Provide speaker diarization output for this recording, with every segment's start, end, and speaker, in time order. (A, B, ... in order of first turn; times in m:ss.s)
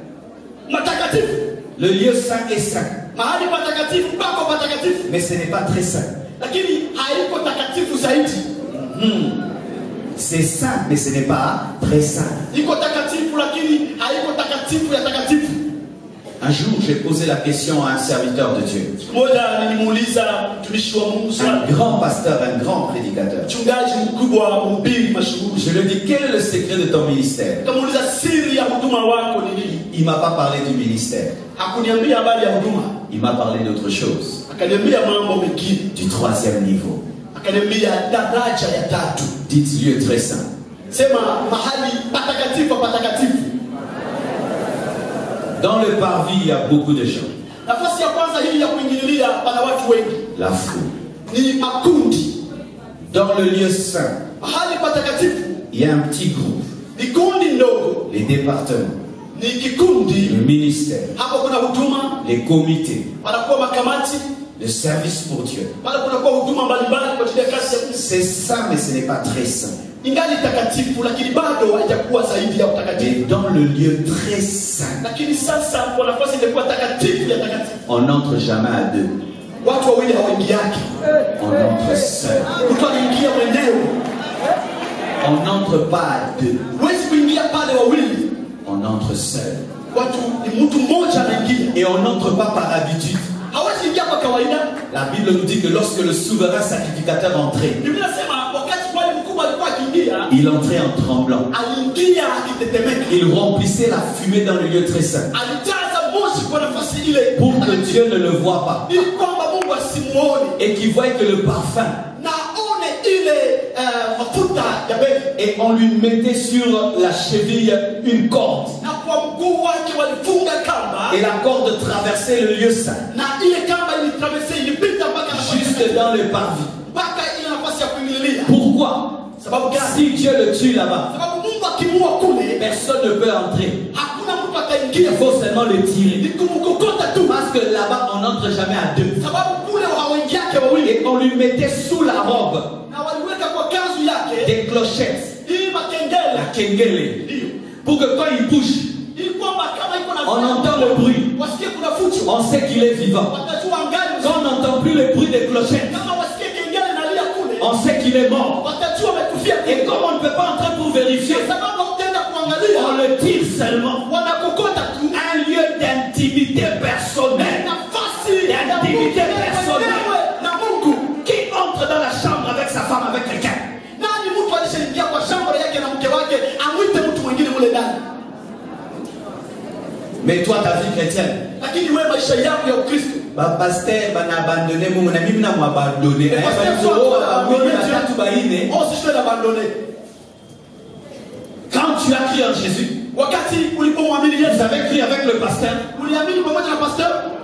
0:00.7-0:01.5 A
0:01.8-0:02.9 B
0:03.1-0:05.1 A
0:05.1-0:06.1 B
0:06.4-0:08.5 A
0:08.7-0:09.4 B
0:10.2-0:12.5 B
0:12.5-0:15.6 A
0:16.4-0:18.9 B
0:19.0-0:21.7 A
0:21.4-0:23.5 B
0:23.4-0:25.8 A
0:25.5-0:27.6 B
0:27.6-0:29.8 A
0:29.8-0:31.3 B
0:31.6-0:32.9 A
0:33.1-0:34.4 B
0:34.5-0:35.9 A
0:35.9-0:37.0 B
0:37.3-0:39.3 A
0:39.5-0:40.4 B
0:40.9-0:43.5 A
0:45.6-0:47.3 B
0:47.6-0:50.2 A
0:50.3-0:50.9 B
0:51.3-0:52.3 A
0:53.1-0:54.2 B
0:54.4-0:55.6 A
0:55.7-0:56.6 B
0:56.9-0:58.0 A
0:58.1-0:58.9 B
0:59.3-1:00.4 A
1:00.2-1:01.1 B
1:01.1-1:02.2 A
1:02.2-1:03.1 B
1:03.2-1:04.3 A
1:04.6-1:05.7 B
1:05.8-1:08.0 A
1:07.6-1:09.7 B
1:10.0-1:13.2 A
1:12.9-1:15.0 B
1:15.0-1:17.8 A
1:17.9-1:19.1 B
1:19.6-1:20.9 A
1:21.4-1:22.5 B
1:22.6-1:23.9 A
1:25.2-1:26.6 B
1:26.7-1:28.3 A
1:28.6-1:29.6 B
1:29.9-1:31.7 A
1:31.7-1:33.3 B
1:33.5-1:34.7 A
1:34.9-1:37.8 B
1:37.8-1:40.3 A
1:40.3-1:41.5 B
1:41.5-1:43.2 A
1:43.1-1:45.3 B
1:45.3-1:48.0 A
1:47.3-1:49.0 B
1:48.9-1:50.6 A
1:50.6-1:52.0 B
1:52.1-1:55.3 A
1:55.4-1:58.8 B
1:58.8-2:01.2 A
2:01.1-2:03.0 B
2:03.1-2:06.1 A
2:05.3-2:06.7 B
2:06.8-2:08.6 A
2:08.4-2:11.1 B
2:09.4-2:10.1 A
2:11.1-2:12.6 A
2:12.6-2:13.8 B
2:13.9-2:15.3 A
2:14.9-2:16.2 B
2:16.2-2:17.4 A
2:17.2-2:19.2 B
2:19.2-2:21.0 A
2:20.8-2:22.7 B
2:22.8-2:24.6 A
2:24.4-2:25.3 B
2:25.4-2:26.5 A
2:26.3-2:27.2 B
2:27.2-2:27.5 A
2:27.8-2:28.9 B
2:29.1-2:32.3 A
2:30.2-2:31.3 B
2:32.2-2:33.3 B
2:33.3-2:34.6 A
2:34.2-2:36.0 B
2:35.8-2:37.7 A
2:37.6-2:38.6 B
2:38.6-2:40.0 A
2:39.6-2:41.5 B
2:41.2-2:43.0 A
2:42.6-2:44.0 B
2:44.0-2:45.2 A
2:45.1-2:47.7 B
2:47.3-2:51.2 A
2:48.4-2:50.1 B
2:51.2-2:53.6 B
2:54.0-2:58.0 A
3:00.2-3:01.4 B
3:01.6-3:03.2 A
3:03.3-3:08.7 B
3:06.3-3:08.1 A
3:08.6-3:09.7 A
3:11.7-3:12.9 B
3:13.1-3:14.7 A
3:14.4-3:15.8 B
3:15.9-3:17.1 A